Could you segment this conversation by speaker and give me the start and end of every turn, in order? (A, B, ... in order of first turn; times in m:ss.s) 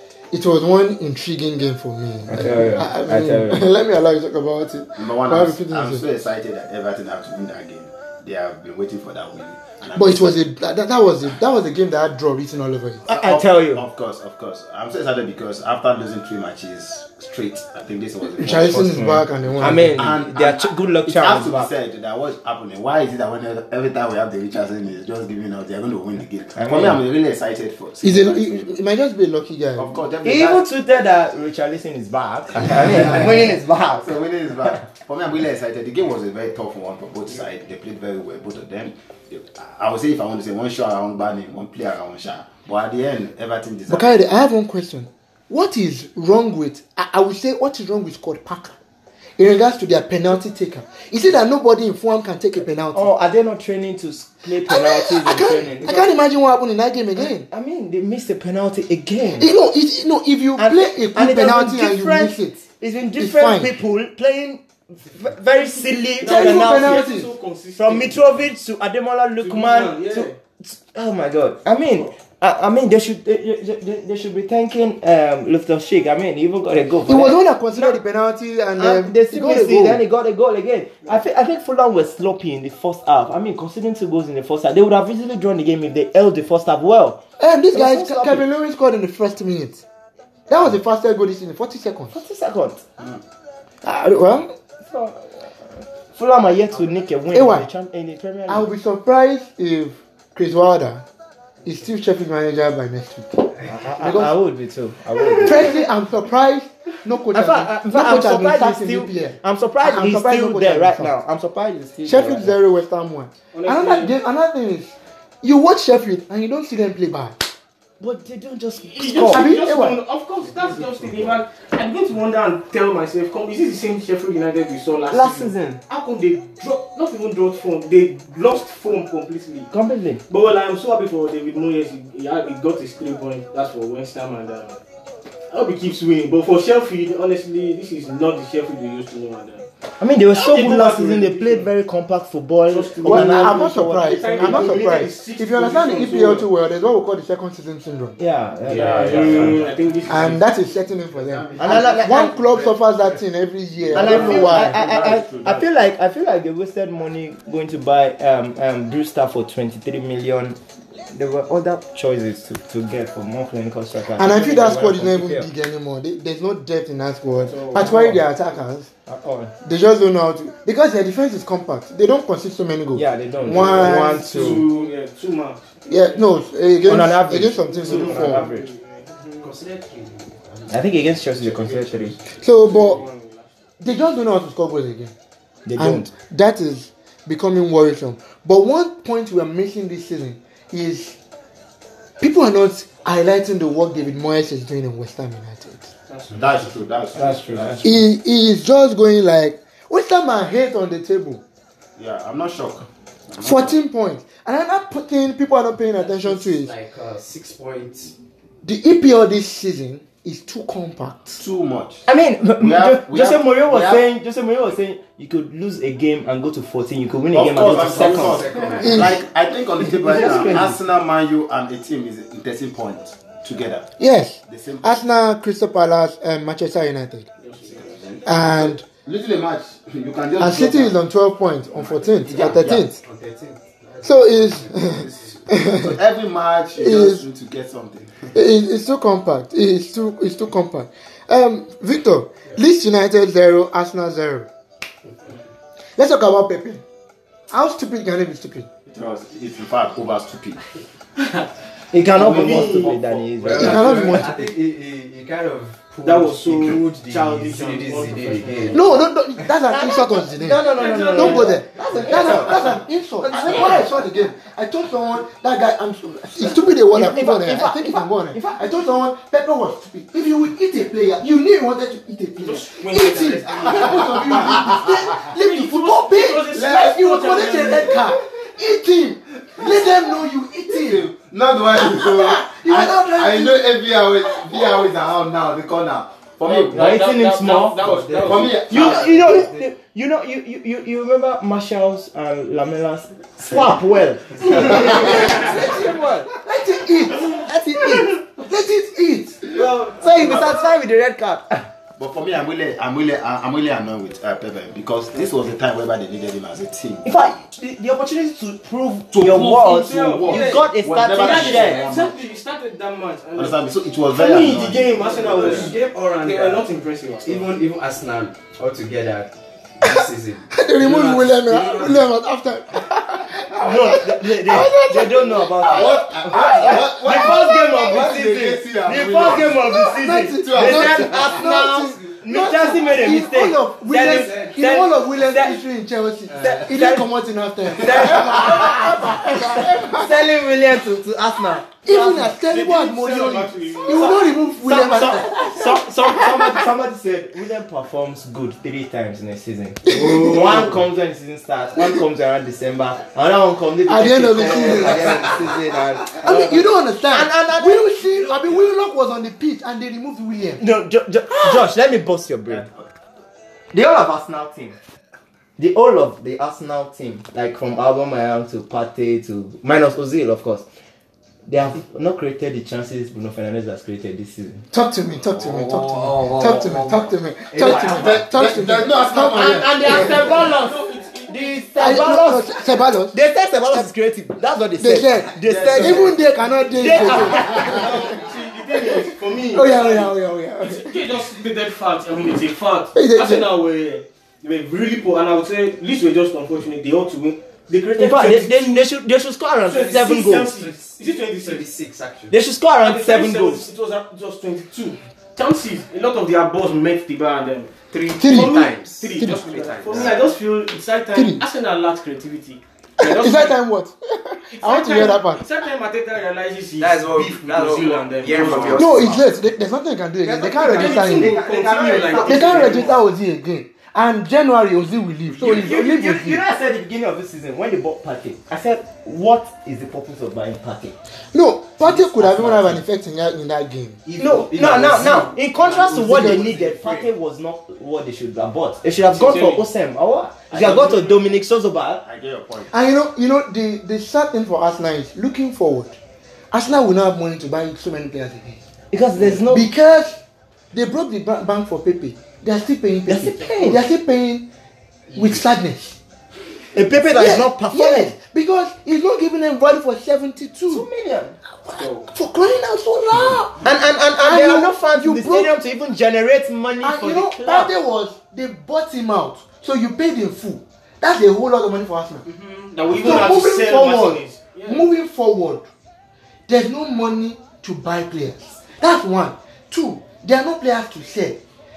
0:00.3-0:06.0 A
0:02.3-0:03.7 B
0:05.0-0:10.4 C
0:10.0-0:13.0 A
0:13.0-0:19.0 C
0:13.1-0:13.8 B
0:18.3-0:20.1 A
0:18.7-0:21.7 B
0:19.6-0:28.7 C
0:26.5-0:27.0 B
0:28.0-0:30.0 A
0:29.8-0:30.6 C
0:30.2-0:34.2 B
0:32.8-0:44.1 C
0:43.9-0:48.8 A
0:49.4-0:53.1 A
0:52.9-0:56.1 B
0:54.6-0:57.5 A
0:57.2-0:59.5 B
0:59.4-1:02.6 A
1:00.6-1:07.0 B
1:03.2-1:03.7 A
1:06.2-1:08.2 D
1:06.2-1:07.3 A
1:07.8-1:18.0 B
1:09.4-1:10.4 D
1:17.1-1:20.0 A
1:18.8-1:27.2 B
1:27.4-1:29.8 A
1:27.7-1:28.4 B
1:30.5-1:32.2 A
1:32.1-1:32.8 B
1:33.8-1:34.5 A
1:34.8-1:38.7 B
1:37.3-1:37.6 A
1:38.5-1:41.0 A
1:41.6-1:44.3 A
1:43.6-1:45.7 B
1:45.4-1:51.1 A
1:47.3-1:52.6 B
1:52.0-1:57.4 A
1:53.5-1:54.1 D
1:58.0-1:59.4 B
1:58.9-2:09.7 D
1:59.2-2:00.0 A
2:05.1-2:05.8 B
2:09.7-2:10.2 B
2:10.3-2:14.8 D
2:15.5-2:19.6 D
2:20.0-2:24.8 B
2:20.3-2:21.7 D
2:22.7-2:26.5 D
2:23.0-2:28.2 A
2:28.2-2:29.6 B
2:28.7-2:29.7 E
2:28.7-2:30.2 C
2:28.7-2:30.5 D
2:30.0-2:34.8 A
2:31.0-2:33.2 C
2:31.6-2:32.4 B
2:33.8-2:35.7 C
2:33.9-2:45.5 B
2:44.2-2:48.9 A
2:47.4-2:48.3 D
2:49.1-2:49.5 B
2:49.6-2:54.6 A
2:52.9-2:54.7 B
2:53.6-2:56.2 D
2:55.9-2:58.5 A
2:56.9-2:58.7 B
2:57.6-2:59.5 D
2:59.4-3:03.0 E
3:00.7-3:02.2 B
3:02.4-3:03.0 A
3:02.6-3:03.6 D
3:03.8-3:05.1 A
3:05.6-3:06.1 B
3:05.8-3:11.2 A
3:12.2-3:15.9 A
3:16.1-3:16.7 D
3:16.3-3:17.9 C
3:17.1-3:17.9 B
3:17.8-3:21.4 A
3:22.0-3:23.8 C
3:23.4-3:26.7 A
3:26.0-3:28.1 E
3:28.6-3:31.4 A
3:31.4-3:32.0 C
3:32.1-3:38.6 B
3:32.6-3:34.0 C
3:37.3-3:43.9 C
3:37.5-3:39.1 E
3:38.8-3:39.2 A
3:39.8-3:40.8 B
3:44.0-3:47.3 A
3:44.5-3:44.9 C
3:47.4-3:48.0 D
3:47.7-3:50.9 C
3:48.2-3:48.8 A
3:50.4-3:53.0 A
3:51.7-3:52.8 C
3:52.3-3:54.8 E
3:54.0-3:56.0 A
3:54.9-3:58.3 C
3:56.8-3:57.2 A
3:58.3-4:04.5 A
4:06.0-4:06.8 A
4:07.5-4:08.7 A
4:08.9-4:10.6 C
4:11.2-4:11.5 D
4:11.9-4:14.0 B
4:12.2-4:14.2 D
4:12.2-4:12.9 C
4:13.4-4:18.9 E
4:13.5-4:14.4 A
4:16.0-4:18.9 D
4:18.7-4:41.1 A
4:19.7-4:23.8 B
4:20.7-4:21.6 D
4:22.0-4:22.4 E
4:26.9-4:28.7 B
4:32.4-4:38.0 D
4:39.6-4:39.9 C
4:40.7-4:47.0 C
4:41.7-4:43.7 A
4:44.3-4:44.7 A
4:46.4-4:48.7 D
4:46.7-4:56.3 B
4:48.2-4:49.5 C
4:48.3-4:49.6 E
4:54.4-4:59.5 A
4:57.2-4:58.1 B
4:59.5-5:01.7 B
5:02.0-5:07.0 C
5:07.0-5:11.9 B
5:09.1-5:12.2 C
5:09.8-5:17.5 D
5:13.3-5:15.7 C
5:15.0-5:16.6 E
5:17.2-5:22.0 E
5:20.5-5:27.9 A
5:23.6-5:35.6 B
5:25.6-5:31.4 C
5:29.6-5:40.1 A
5:36.3-5:36.6 D
5:36.4-5:37.1 B
5:37.7-5:42.3 B
5:41.8-5:46.5 A
5:42.4-5:44.4 D
5:43.9-5:58.6 B
5:49.9-5:50.7 A
5:53.8-5:55.6 A
5:56.2-6:00.6 A
6:00.6-6:02.7 B
6:02.5-6:02.8 C
6:03.7-6:04.8 B
6:05.6-6:10.6 B
6:11.4-6:14.6 B
6:14.7-6:20.3 A
6:15.3-6:18.0 E
6:16.3-6:16.6 B
6:17.5-6:18.2 B
6:17.6-6:20.1 C
6:19.1-6:22.5 B
6:19.8-6:22.0 D
6:21.8-6:23.9 A
6:23.1-6:26.1 B
6:24.8-6:28.2 A
6:25.4-6:26.1 C
6:26.7-6:27.9 B
6:26.9-6:38.8 D
6:27.0-6:27.8 C
6:28.9-6:31.0 A
6:32.9-6:33.4 A
6:38.0-6:40.5 B
6:39.6-6:41.6 D
6:40.5-6:42.3 E
6:42.3-6:43.6 B
6:42.8-6:53.6 D
6:47.9-6:50.3 E
6:48.2-6:48.6 A
6:49.2-6:49.4 A
6:51.1-6:51.4 A
6:53.0-6:55.4 A
6:54.5-6:59.1 D
6:56.8-6:59.2 E
6:58.8-7:01.4 A
7:00.2-7:02.9 B
7:00.7-7:03.0 D
7:02.1-7:06.4 A
7:05.4-7:10.9 B
7:11.3-7:14.0 A
7:11.9-7:12.8 B
7:14.0-7:17.1 E
7:14.2-7:22.0 B
7:16.1-7:16.4 A
7:19.0-7:19.6 D
7:20.5-7:21.2 D
7:22.0-7:22.7 C
7:22.7-7:26.0 A
7:26.5-7:28.6 A
7:28.9-7:29.6 B
7:29.2-7:30.2 A
7:30.7-7:34.5 A
7:33.1-7:33.8 B
7:35.1-7:36.0 A
7:36.7-7:38.1 B
7:37.1-7:40.9 A
7:40.7-7:41.4 B
7:41.6-7:43.7 A
7:41.7-7:42.1 D
7:43.6-7:47.7 B
7:44.2-7:45.5 A
7:46.8-7:52.2 A
7:52.2-7:54.9 D
7:52.9-7:55.7 A
7:56.5-8:01.4 A